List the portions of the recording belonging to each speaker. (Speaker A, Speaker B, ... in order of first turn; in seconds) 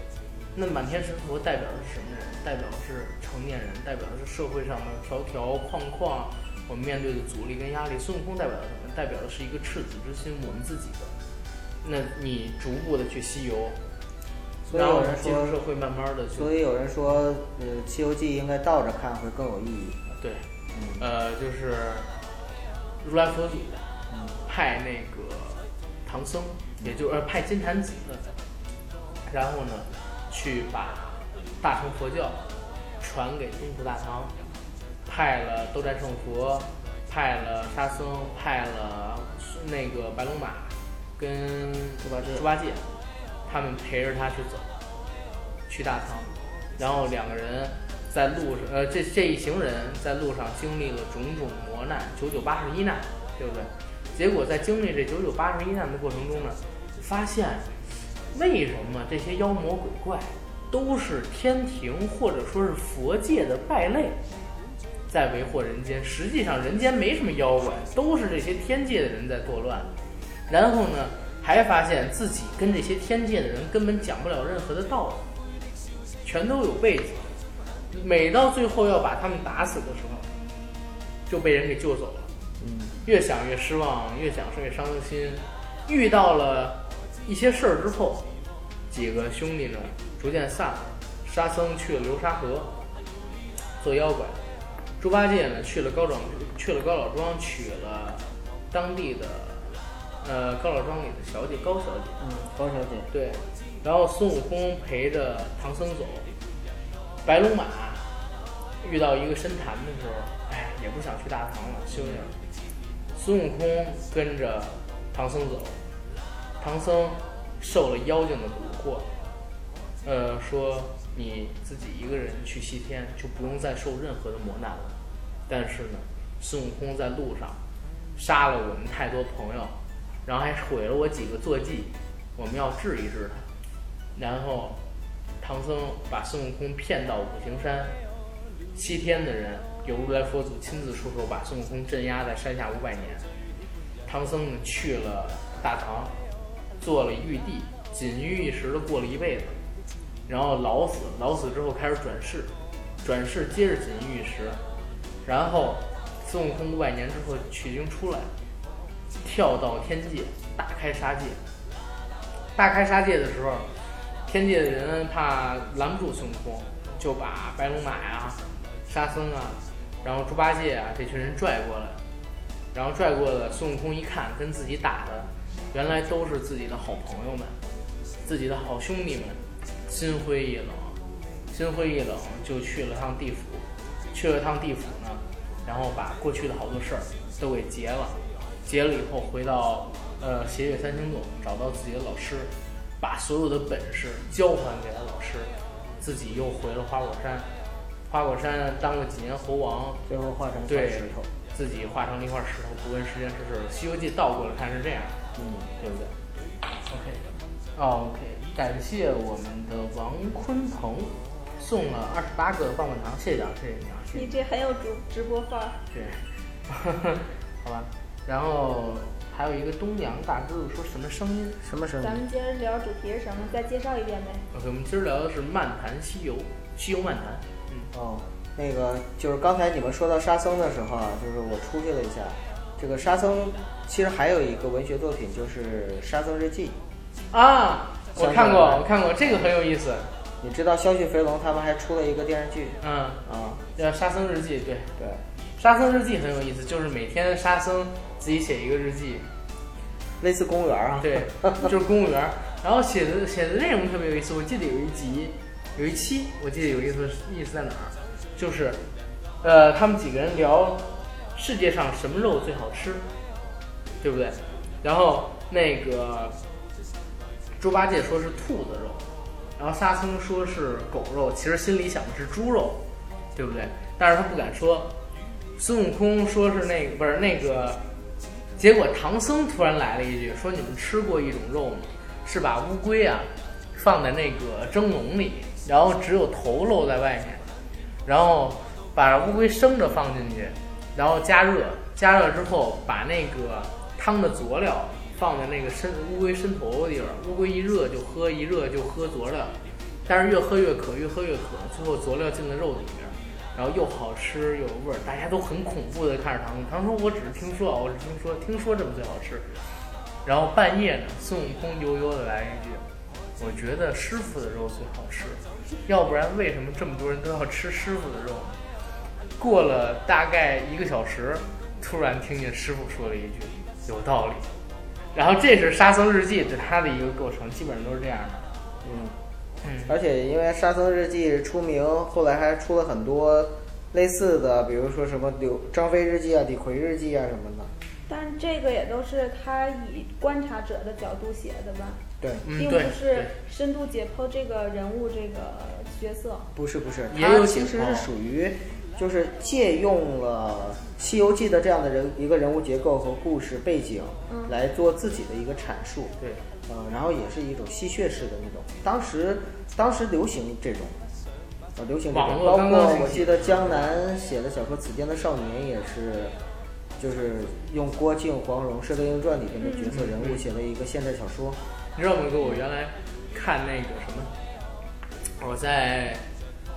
Speaker A: 0.6-11.1, 11.8-13.8, 14.7-16.5, 20.2-20.5, 21.0-22.1, 23.0-23.8, 24.4-28.3, 29.3-32.4, 33.0-34.3, 35.1-42.9, 43.5-44.7, 45.7-57.7, 58.3-64.2, 65.1-69.9, 70.5-75.2, 76.2-77.3, 77.9-80.3, 81.3-82.3, 83.0-88.3, 88.9-92.7, 93.8-94.4, 95.0-102.2, 103.1-106.3, 107.2-108.0, 108.8-112.3, 113.2-115.8, 116.6-119.1, 120.0-124.9, 125.5-127.6, 128.2-129.7, 130.2-133.5, 134.2-134.8, 135.4-137.9, 138.7-143.2, 144.1-146.1, 146.8-149.6, 150.3-152.5, 153.0-154.6, 155.2-158.3, 159.2-161.4, 162.6-163.7, 164.3-172.0, 172.7-177.6, 178.2-181.0, 181.5-197.5, 198.1-200.0, 200.7-205.2, 205.8-206.1, 206.8-207.2, 207.8-214.3, 215.9-221.6, 224.5-227.9, 237.3-240.1, 242.8-243.2, 243.8-244.9, 245.6-249.3, 251.0-258.8, 259.4-263.1, 264.0-266.4, 267.6-269.0, 269.6-272.8, 273.4-274.9, 275.6-277.8, 278.6-287.5, 288.1-309.5, 310.2-312.9, 313.4-318.6, 319.4-324.5, 325.1-328.5, 329.6-329.9, 342.4-343.3, 347.1-348.1, 362.1-363.9, 369.9-370.4, 372.0-374.3, 375.4-376.2
Speaker B: 14.7-15.6, 16.4-20.0, 20.7-21.0, 24.1-24.4, 42.0-42.5, 82.6-83.0, 102.2-103.1, 111.9-112.3, 200.1-201.3, 205.3-205.7, 221.6-222.2, 227.9-236.8, 238.2-238.9, 240.4-243.6, 250.2-251.7, 328.8-329.2, 329.9-337.7, 346.6-356.1, 356.7-361.0, 361.8-366.4, 367.0-371.6
Speaker C: 214.1-215.8, 222.0-224.5, 338.1-342.0, 342.6-346.5, 354.3-354.5